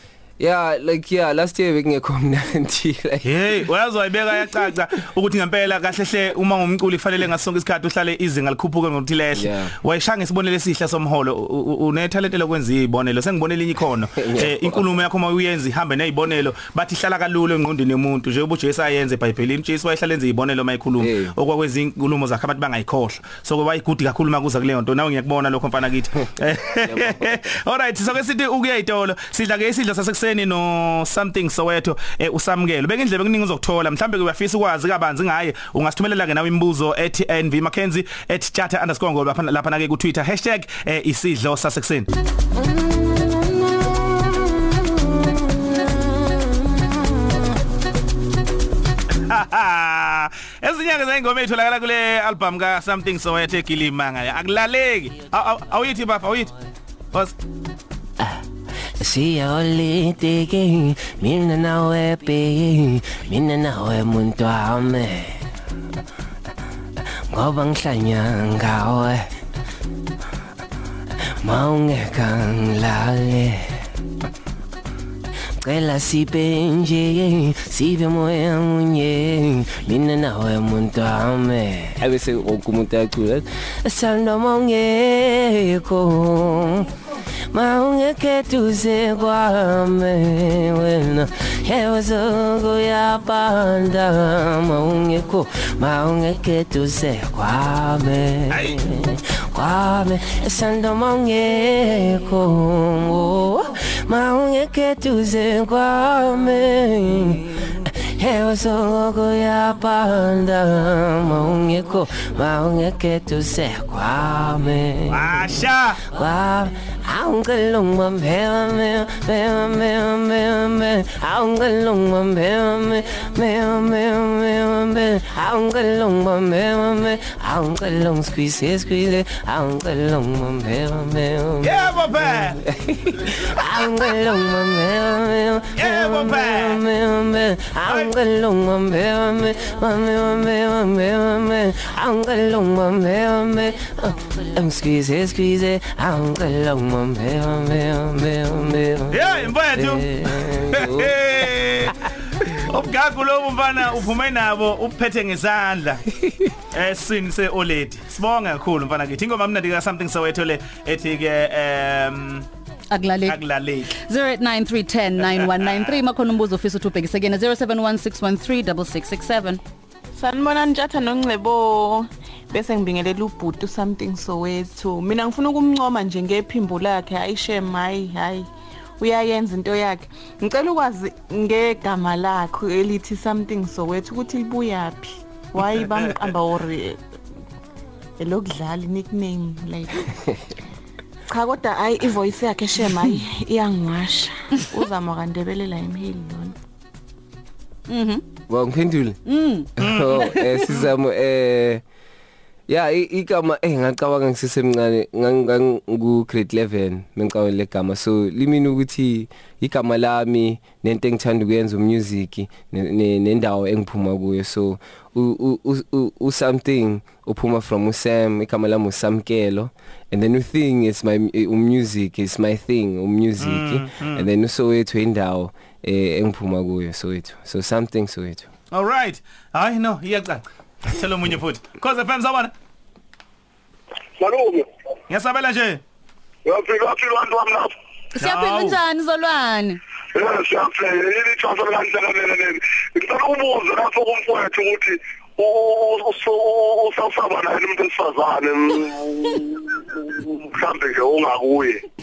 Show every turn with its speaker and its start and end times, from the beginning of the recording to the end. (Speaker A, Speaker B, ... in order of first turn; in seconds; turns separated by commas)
Speaker A: 0.4-3.3, Speaker B: 3.2-42.1, Speaker A: 9.3-9.8, Speaker A: 14.2-14.9, Speaker A: 21.0-21.4, Speaker A: 26.8-27.4, Speaker C: 42.6-44.6, Speaker B: 49.3-56.5, Speaker C: 59.0-65.4, Speaker C: 67.3-69.3, Speaker C: 71.4-73.7, Speaker C: 75.6-81.9, Speaker A: 82.0-83.4, Speaker C: 83.8-86.9, Speaker C: 87.5-98.6, Speaker B: 98.5-98.8, Speaker C: 99.5-107.4, Speaker C: 108.1-115.2, Speaker B: 115.1-116.0, Speaker C: 116.1-131.6, Speaker B: 131.6-132.6, Speaker A: 132.6-133.4, Speaker C: 133.8-148.9, Speaker B: 135.8-136.8, Speaker B: 149.1-152.0, Speaker A: 150.6-151.1, Speaker B: 152.5-156.1, Speaker B: 156.7-162.5, Speaker D: 162.9-163.4, Speaker B: 163.3-163.9, Speaker D: 164.0-169.6, Speaker B: 165.2-166.0, Speaker E: 170.2-187.0, Speaker E: 188.2-190.1, Speaker E: 191.3-196.6, Speaker D: 197.9-198.2, Speaker A: 198.5-199.2, Speaker D: 199.2-199.7, Speaker A: 199.8-201.8, Speaker B: 199.8-200.9, Speaker A: 202.7-228.5, Speaker B: 223.4-224.3, Speaker B: 228.7-232.5, Speaker F: 234.2-234.7, Speaker B: 235.1-235.8, Speaker F: 236.5-237.7, Speaker D: 238.2-239.8, Speaker B: 238.2-238.8, Speaker F: 240.2-251.8